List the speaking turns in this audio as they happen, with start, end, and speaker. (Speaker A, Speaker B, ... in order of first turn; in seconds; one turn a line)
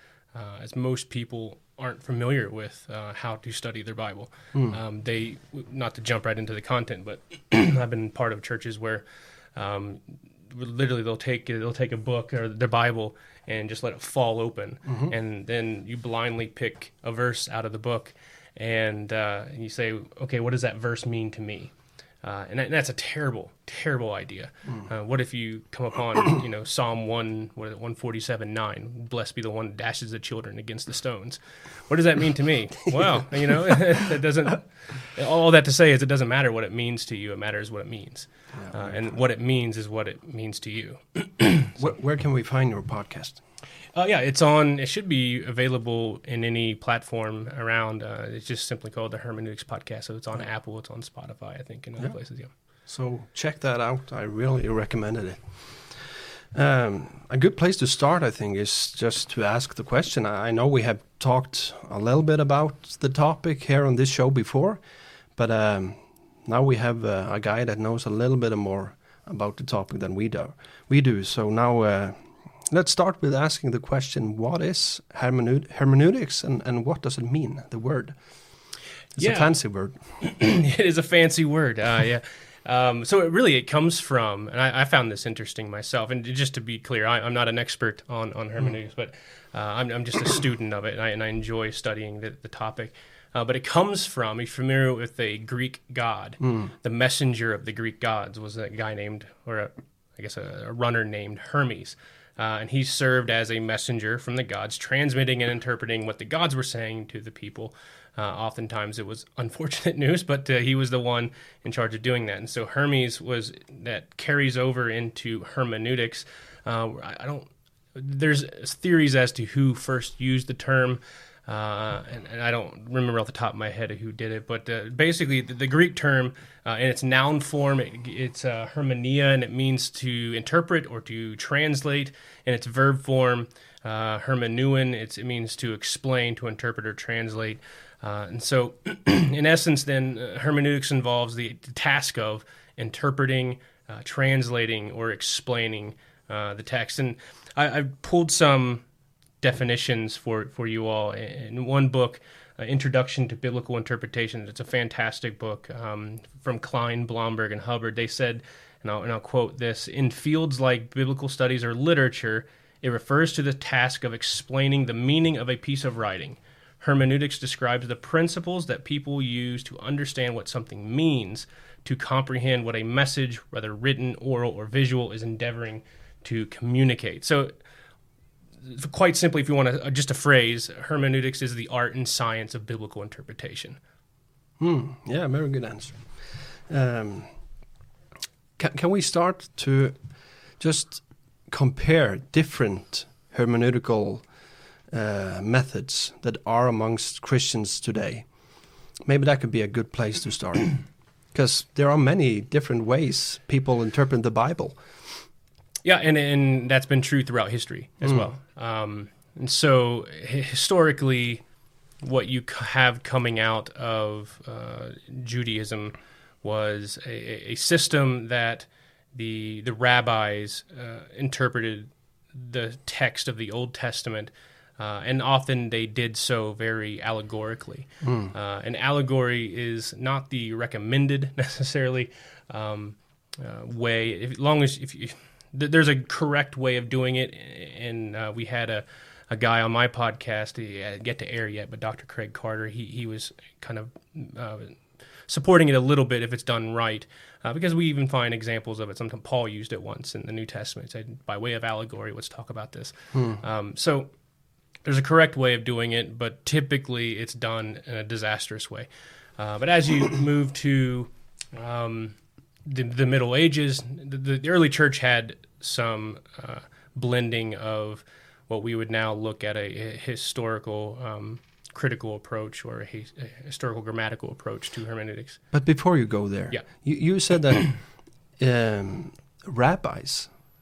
Speaker A: 0.3-41.9
Speaker B: 4.5-4.8
Speaker B: 14.9-15.1
Speaker B: 38.5-39.2
Speaker B: 41.8-43.4
Speaker A: 43.9-52.5
Speaker B: 52.9-64.8
Speaker B: 65.3-78.2
Speaker B: 79.2-80.0
Speaker A: 79.2-79.5
Speaker A: 80.2-148.8
Speaker B: 96.4-96.7
Speaker A: 149.4-177.5
Speaker A: 178.6-183.8
Speaker B: 184.6-187.3
Speaker B: 188.6-190.0
Speaker B: 190.6-194.3
Speaker B: 194.9-198.3
Speaker B: 199.0-204.8
Speaker A: 205.8-211.4
Speaker B: 208.0-208.3
Speaker A: 212.0-254.1
Speaker B: 228.0-228.3
Speaker B: 253.1-253.4
Speaker A: 254.8-275.4
Speaker B: 275.5-280.3